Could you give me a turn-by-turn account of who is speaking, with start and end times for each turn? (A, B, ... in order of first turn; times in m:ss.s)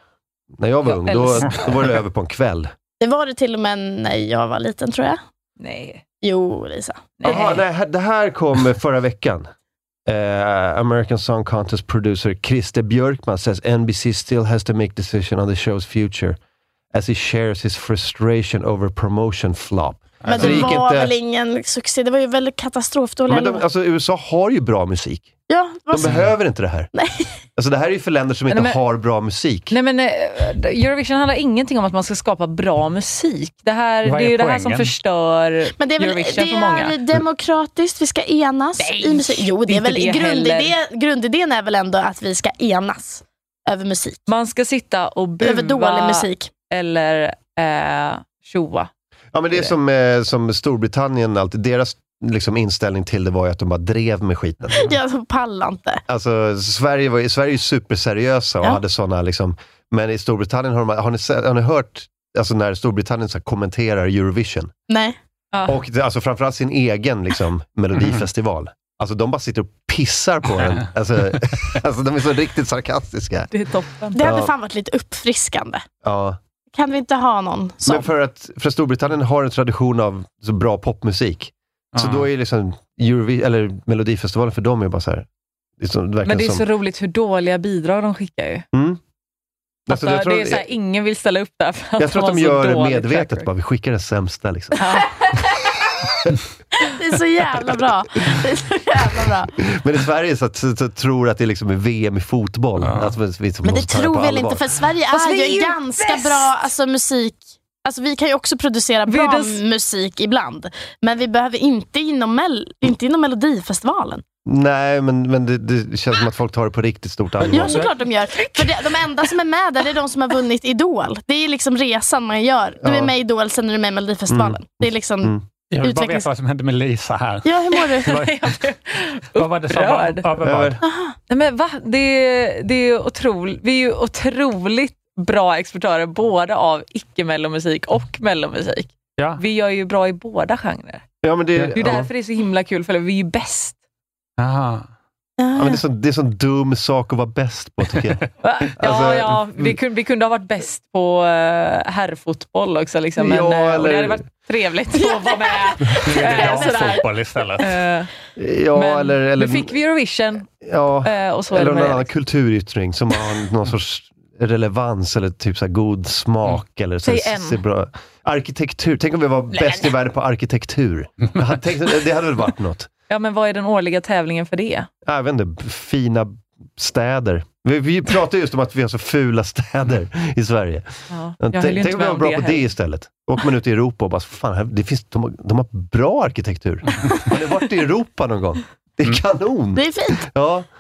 0:00.6-0:02.7 A
0:00.9-0:01.8 B
0:03.0-0:05.2 C
0:05.6-0:06.0 B
0:06.2-0:07.3 C
0:07.2-0:07.6 B
0:07.2-0:09.5 A
0:10.1-0:16.4 A
0:16.9-0:21.1 A
0:20.2-0:20.8 D
0:20.3-0:23.6 C
0:23.3-0:25.3 A
0:25.5-0:26.1 C
0:25.9-0:26.9 A
0:26.0-0:26.3 D
0:26.9-0:27.3 C
0:27.6-0:29.7 A
0:28.5-0:28.8 B
0:29.7-0:37.0 B
0:34.0-0:34.9 D
0:35.8-0:44.2 C
0:38.8-0:40.8 B
0:44.3-0:48.9 B
0:45.4-0:46.5 C
0:49.3-0:54.9 A
0:54.7-0:56.0 C
0:56.1-1:04.7 A
1:04.9-1:05.2 C
1:05.5-1:05.8 B
1:05.7-1:13.5 A
1:13.5-1:14.2 B
1:14.2-1:14.5 A
1:14.2-1:15.8 C
1:16.0-1:16.4 A
1:16.7-1:18.1 C
1:17.8-1:25.3 A
1:21.9-1:22.3 D
1:25.8-1:26.6 A
1:26.2-1:28.6 B
1:28.7-1:29.0 A
1:29.9-1:30.7 A
1:29.9-1:33.5 B
1:32.0-1:34.8 A
1:34.8-1:35.2 B
1:36.8-1:39.5 C
1:39.6-1:44.6 A
1:42.8-1:43.1 D
1:43.6-1:54.2 C
1:45.1-1:46.5 B
1:49.1-1:49.6 B
1:54.5-1:57.8 A
1:57.5-2:06.3 C
1:57.5-1:57.9 D
1:58.4-1:59.0 B
2:02.8-2:03.1 A
2:04.3-2:05.4 A
2:05.7-2:08.7 D
2:07.4-2:08.2 C
2:07.9-2:10.3 B
2:09.4-2:10.8 D
2:10.4-2:10.8 A
2:10.8-2:11.2 C
2:11.3-2:21.0 B
2:21.2-2:22.1 A
2:21.8-2:23.8 B
2:24.4-2:24.9 D
2:25.4-2:25.8 C
2:25.6-2:28.2 A
2:28.4-2:38.1 B
2:28.8-2:29.7 A
2:33.2-2:34.2 A
2:35.0-2:35.5 C
2:36.0-2:37.7 D
2:36.3-2:37.0 C
2:38.4-2:39.7 A
2:38.7-2:40.5 B
2:40.6-2:52.9 A
2:41.0-2:42.1 B
2:47.0-2:47.6 B
2:49.6-2:49.8 B
2:53.1-2:54.9 B
2:55.0-3:00.9 A
3:01.1-3:02.6 B
3:01.4-3:10.7 A
3:09.8-3:10.2 C